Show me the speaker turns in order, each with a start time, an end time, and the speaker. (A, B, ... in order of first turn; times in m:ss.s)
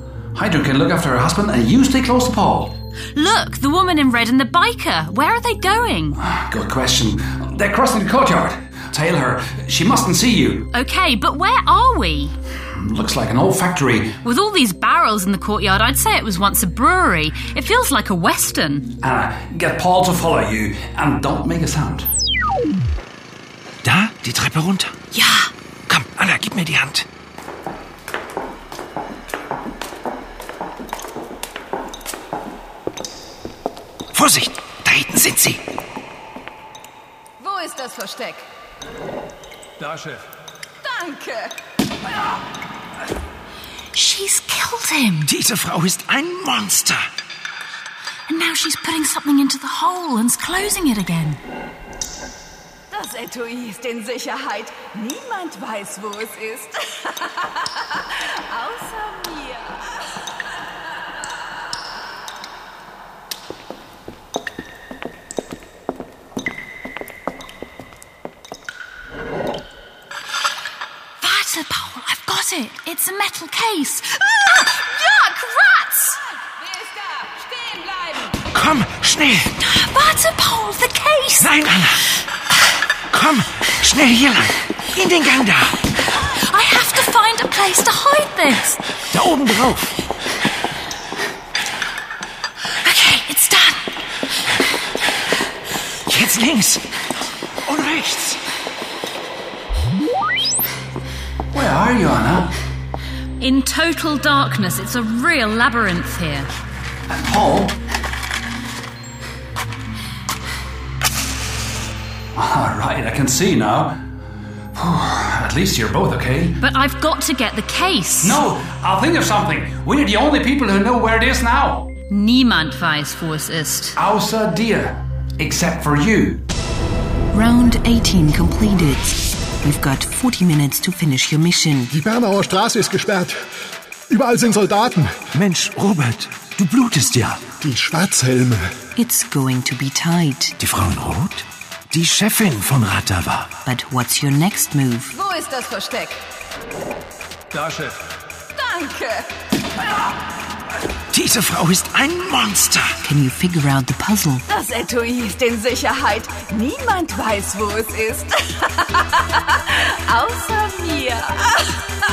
0:00.3-0:02.7 A
0:03.1-0:06.2 B
0:06.2-0:10.7 A
0:10.7-0:12.3 B
0:12.7-0:14.2 A
0:14.2-0:18.9 B
0:19.0-0:22.1 A
0:23.8-0:24.9 C
0:25.2-0:25.4 B
0:25.9-0:27.0 C
0:34.1-0:35.6 C
0:37.4-0:38.4 D
0:39.8-0:40.2 A
0:40.8-0:41.5 D
0:43.9-0:45.3 B
0:45.3-0:47.0 C
0:48.3-0:51.4 B
0:52.9-0:59.9 D
1:11.2-1:16.2 B
1:16.6-1:18.1 D
1:18.5-1:19.5 C
1:19.6-1:21.5 B
1:21.4-1:22.0 C
1:23.1-1:25.8 C
1:26.2-1:28.8 B
1:29.1-1:29.9 C
1:32.8-1:33.8 B
1:36.1-1:36.8 C
1:37.7-1:38.4 C
1:41.5-1:42.5 A
1:43.4-1:46.5 B
1:47.1-1:47.8 A
1:52.4-1:54.0 A
1:54.7-1:56.6 A
1:56.6-1:58.4 B
1:58.2-2:01.9 A
2:02.1-2:04.0 B
2:04.0-2:06.4 A
2:07.3-2:11.9 E
2:11.9-2:13.4 F
2:14.1-2:15.1 F
2:15.4-2:17.5 C
2:17.6-2:18.7 F
2:19.0-2:20.6 E
2:20.6-2:23.5 C
2:23.6-2:25.2 E
2:25.1-2:26.2 D
2:27.5-2:28.0 A
2:28.6-2:29.3 D
2:31.1-2:32.9 C
2:33.0-2:34.4 E
2:34.5-2:41.8 D